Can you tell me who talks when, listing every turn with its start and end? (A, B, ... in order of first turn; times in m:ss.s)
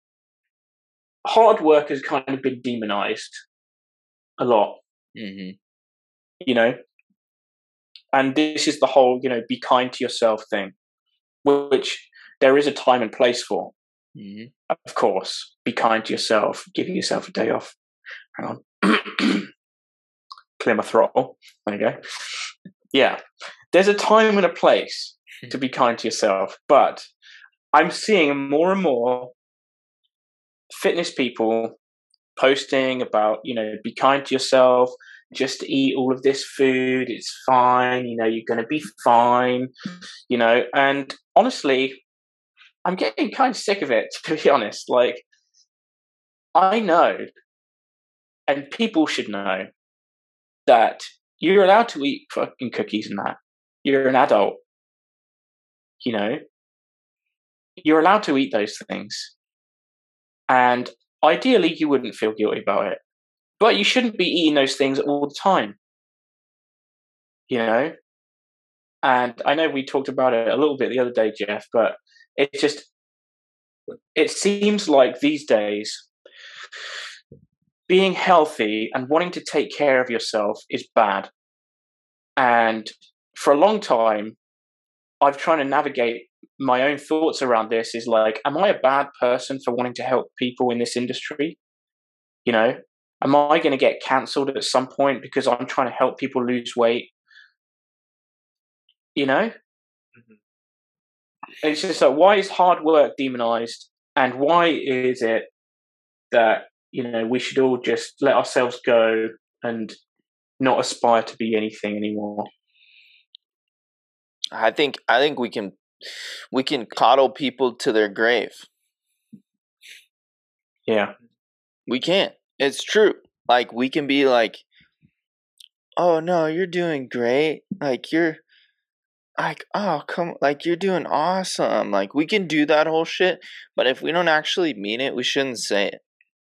0:01.2-0:03.4 A
0:04.4-0:04.8 A
0:05.1-0:05.6 B
0:06.4-0:06.8 A
0:08.1-0:10.7 A
0:11.4-0:13.7 A
0:14.1-0:14.5 B
0:14.7-0:17.8 A
0:18.4-0:19.5 A
0:20.6-0:23.2 A
0:23.7-0:27.1 A
0:27.7-0:29.3 A
0:30.7-0:31.8 A
0:32.4-0:39.7 A
0:40.3-0:42.0 A
0:42.8-0:45.2 A
0:46.5-0:47.3 A
0:48.5-0:49.7 A
0:50.6-0:54.6 A
0:56.0-0:56.4 A
0:57.8-0:59.3 A
1:00.5-1:03.0 A
1:03.6-1:05.8 A
1:07.5-1:07.9 A
1:09.0-1:12.9 A
1:14.1-1:16.1 A
1:17.9-1:21.3 A
1:22.4-1:24.4 A
1:25.2-1:31.6 A
1:32.4-1:37.1 A
1:39.2-1:39.5 A
1:41.6-1:45.5 A
1:46.3-1:50.0 A
1:50.6-1:52.5 A
1:54.5-1:55.8 B
1:56.5-1:58.6 B
2:00.9-2:01.1 A
2:01.9-2:04.6 B
2:06.0-2:08.4 B
2:09.4-2:16.0 B